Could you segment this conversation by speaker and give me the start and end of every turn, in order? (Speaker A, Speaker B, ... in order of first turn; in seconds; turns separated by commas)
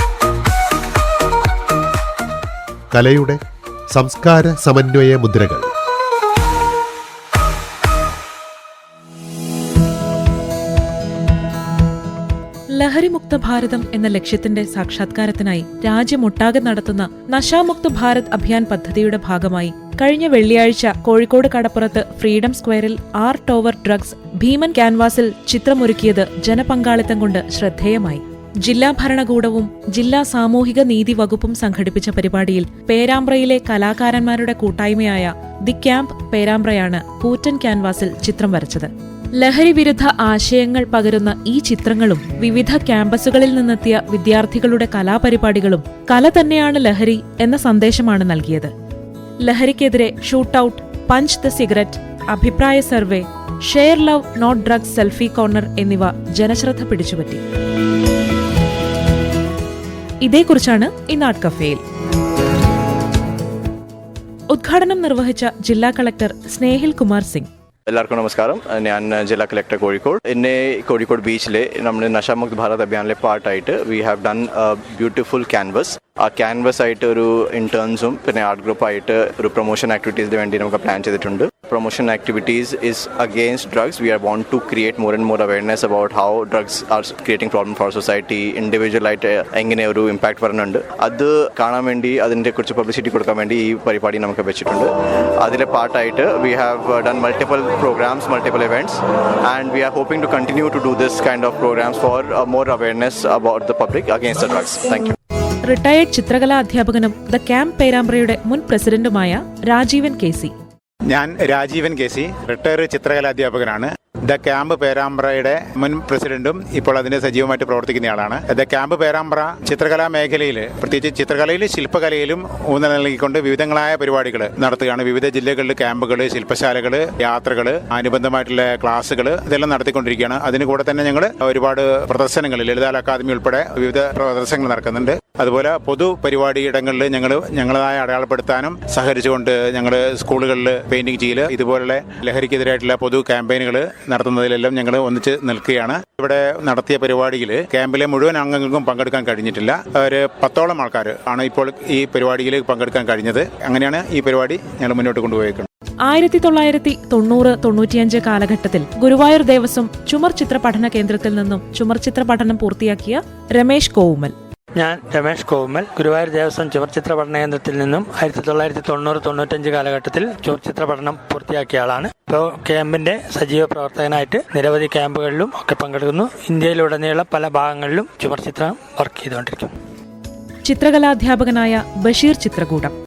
Speaker A: 2.9-5.7, Speaker B: 12.7-48.7, Speaker B: 49.4-57.4, Speaker B: 60.2-61.8, Speaker B: 64.5-67.5, Speaker C: 67.9-94.9, Speaker C: 95.4-105.2, Speaker B: 105.7-110.5, Speaker D: 111.1-155.7, Speaker B: 156.1-164.3, Speaker E: 164.8-179.7, Speaker B: 180.6-182.9